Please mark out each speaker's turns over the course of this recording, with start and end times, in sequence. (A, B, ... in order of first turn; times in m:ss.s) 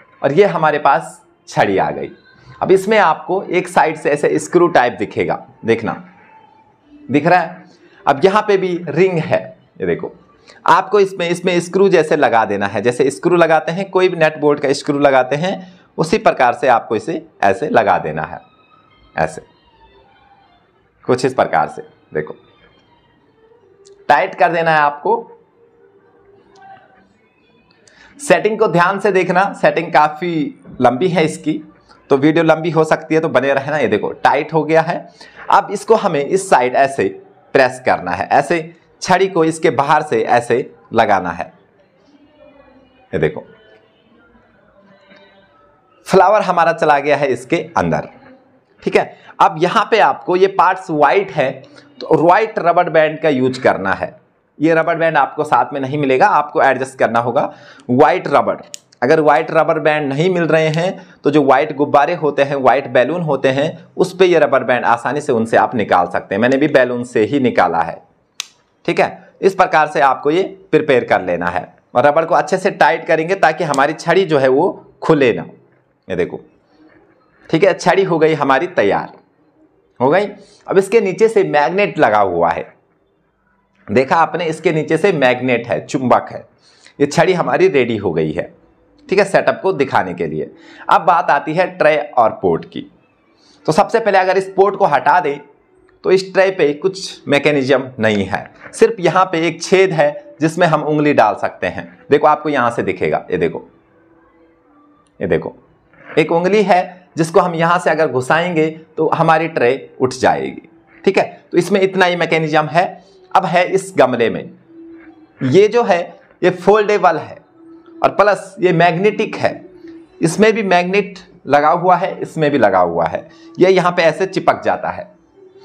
0:00.2-0:06.0 A
0:07.1-0:18.4 A
0:19.2-0:19.5 A
0:21.0-0:22.4 A
0:24.1-0:25.3 A
0:28.2-0:41.5 A
0:43.1-0:43.5 A
0:46.0-0:48.1 A
0:48.8-1:08.0 A
1:08.8-1:15.5 A
1:16.1-1:16.4 A
1:17.5-1:19.2 A
1:20.0-1:22.7 A
1:23.9-1:26.5 A
1:27.0-1:28.5 A
1:29.1-1:32.9 A
1:33.6-1:35.4 A
1:36.0-1:43.7 A
1:45.2-1:45.6 A
1:46.2-1:54.5 A
1:55.4-1:57.4 A
1:58.0-1:59.6 A
2:00.2-2:05.1 A